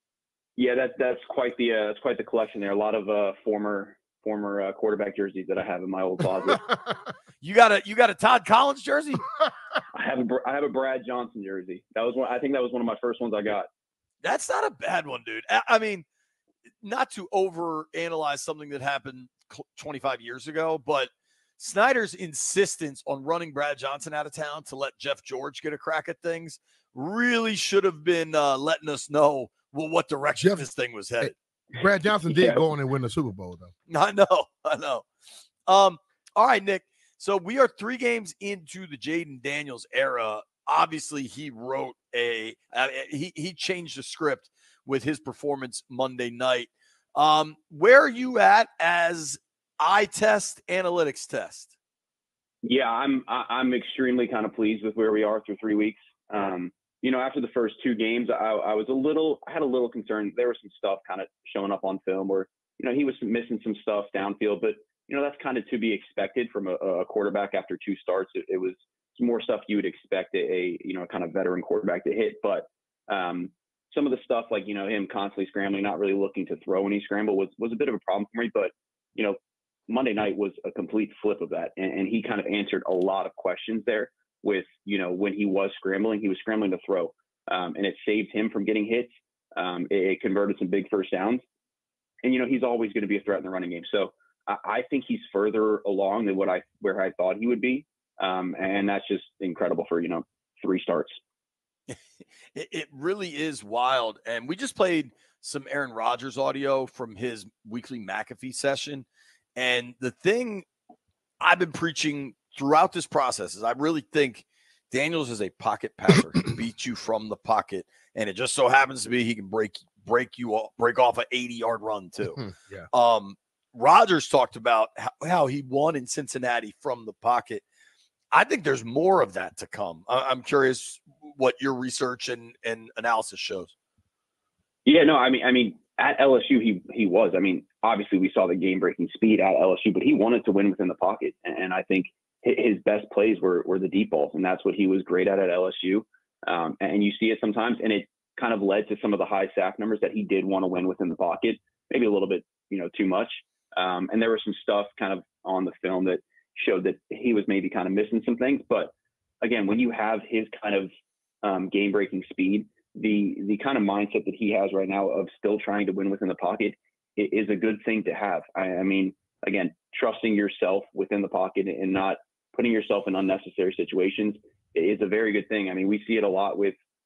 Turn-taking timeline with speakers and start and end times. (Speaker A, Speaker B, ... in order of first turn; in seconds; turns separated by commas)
Speaker A: 0.6-6.6, Speaker B: 7.4-9.2, Speaker A: 9.9-13.7, Speaker B: 14.2-16.1, Speaker B: 16.8-31.3, Speaker C: 30.4-30.6, Speaker C: 31.2-33.7, Speaker A: 31.8-32.6, Speaker B: 33.9-35.0, Speaker B: 35.7-51.7, Speaker A: 52.6-79.4, Speaker A: 79.9-91.4, Speaker A: 92.2-101.2, Speaker B: 102.5-110.7, Speaker B: 111.4-127.6, Speaker C: 122.4-122.8, Speaker B: 128.3-133.7, Speaker A: 134.8-160.9, Speaker A: 161.4-176.8